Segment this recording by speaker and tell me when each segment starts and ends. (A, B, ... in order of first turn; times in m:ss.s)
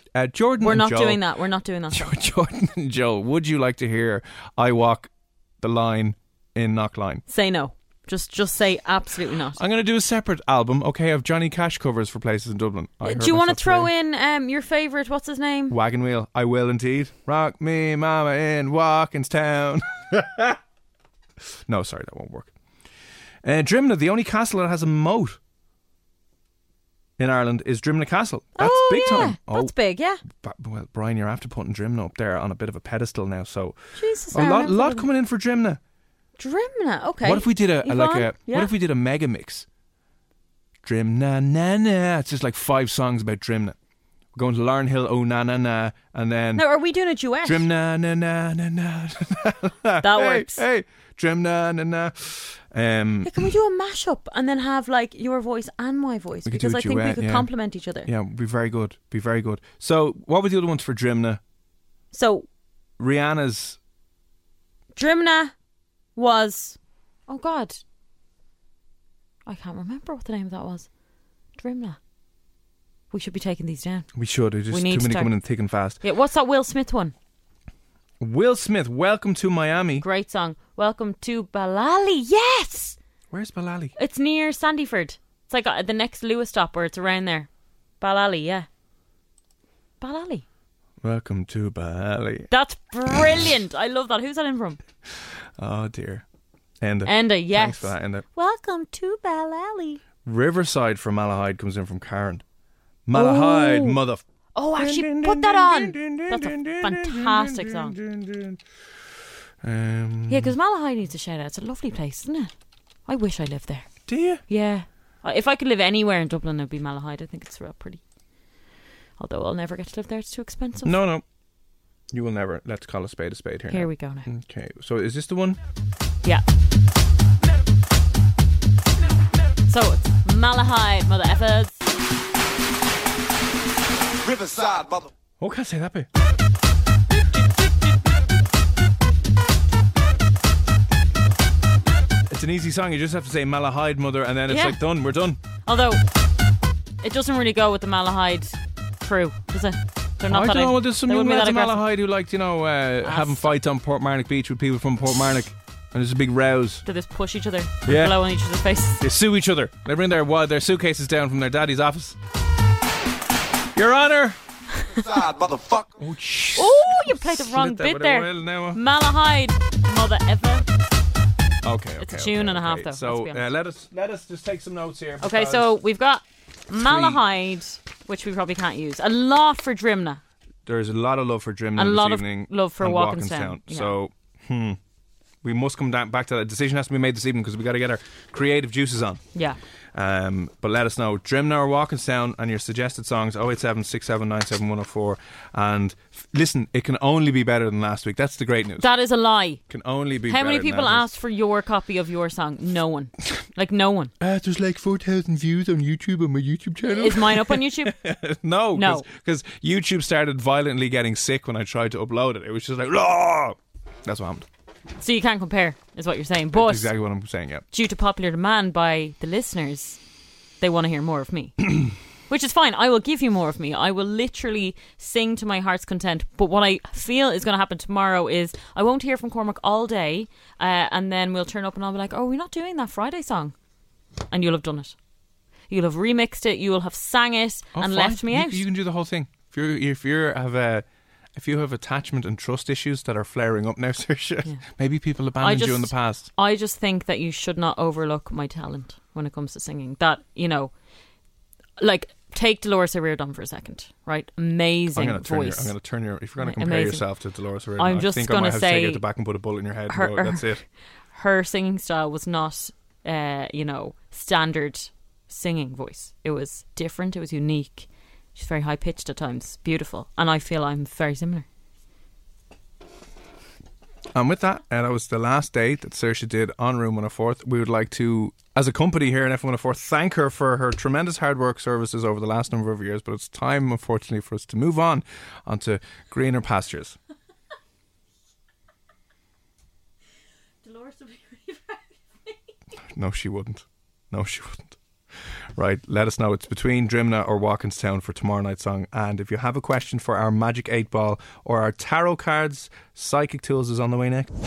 0:00.1-0:01.2 A
0:00.6-0:02.1 B
0:01.9-0:07.2 A
0:07.3-0:09.6 B
0:09.6-0:13.9 A
0:13.0-0:15.8 B
0:15.7-0:20.6 A
0:21.7-0:22.5 A
0:23.4-0:25.4 A
0:27.2-0:29.7 A
0:28.6-0:30.2 B
0:30.3-0:33.8 A
0:34.0-0:35.1 B
0:34.3-0:35.8 A
0:36.4-0:38.7 B
0:37.2-0:39.7 A
0:40.8-0:43.8 A
0:44.3-0:46.6 A
0:46.6-0:47.7 B
0:47.4-0:53.5 A
0:50.0-0:50.6 B
0:53.2-0:58.1 B
0:56.5-0:57.5 A
0:58.0-1:01.4 A
1:02.1-1:02.5 B
1:03.0-1:03.8 A
1:05.0-1:05.5 B
1:06.2-1:07.8 B
1:09.5-1:10.9 B
1:11.6-1:12.0 B
1:13.1-1:14.1 B
1:14.2-1:16.0 A
1:14.7-1:15.4 B
1:16.0-1:17.1 B
1:18.2-1:20.0 A
1:20.0-1:23.0 B
1:23.3-1:23.9 A
1:24.0-1:27.5 B
1:28.0-1:28.7 B
1:30.0-1:30.4 B
1:31.0-1:32.5 A
1:32.5-1:34.8 B
1:35.6-1:36.2 A
1:36.8-1:38.2 A
1:37.0-1:40.0 B
1:40.2-1:42.4 A
1:43.1-1:44.2 A
1:43.1-1:44.0 B
1:44.6-1:48.0 B
1:44.8-1:48.6 A
1:49.6-1:50.5 A
1:50.3-1:52.5 B
1:53.1-1:58.0 B
1:54.1-1:54.4 A
1:59.2-2:01.0 B
2:00.8-2:01.2 A
2:02.1-2:05.6 A
2:03.7-2:04.3 B
2:09.7-2:11.8 B
2:15.4-2:16.1 A
2:22.3-2:25.4 A
2:24.5-2:24.8 B
2:25.6-2:26.0 B
2:27.0-2:31.8 B
2:30.3-2:36.8 A
2:33.0-2:33.5 B
2:36.9-2:39.0 B
2:37.9-2:38.2 A
2:39.0-2:42.2 A
2:43.8-2:44.4 A
2:44.8-2:45.3 B
2:45.2-2:48.8 A
2:46.6-2:50.6 B
2:51.6-2:55.7 A
2:52.0-2:53.4 B
2:55.2-3:00.2 B
2:56.7-2:57.2 A
3:00.6-3:04.8 A
3:01.8-3:03.9 B
3:05.4-3:09.2 A
3:09.9-3:18.9 A
3:18.8-3:19.6 B
3:19.7-3:21.1 A
3:20.3-3:24.1 B
3:24.2-3:34.5 A
3:26.8-3:28.0 B
3:28.8-3:29.1 B
3:35.0-3:36.9 B
3:36.5-3:37.6 A
3:37.7-3:40.0 B
3:40.6-3:53.6 B
3:54.3-3:55.0 B
3:55.7-3:58.6 B
3:57.8-4:06.3 A
4:05.4-4:10.7 B
4:11.8-4:15.7 B
4:14.9-4:20.6 A
4:16.4-4:17.0 B
4:17.8-4:19.0 B
4:19.9-4:31.4 B
4:34.1-4:47.0 A
4:50.6-4:52.3 B
4:52.9-4:54.8 A
4:55.6-5:04.3 A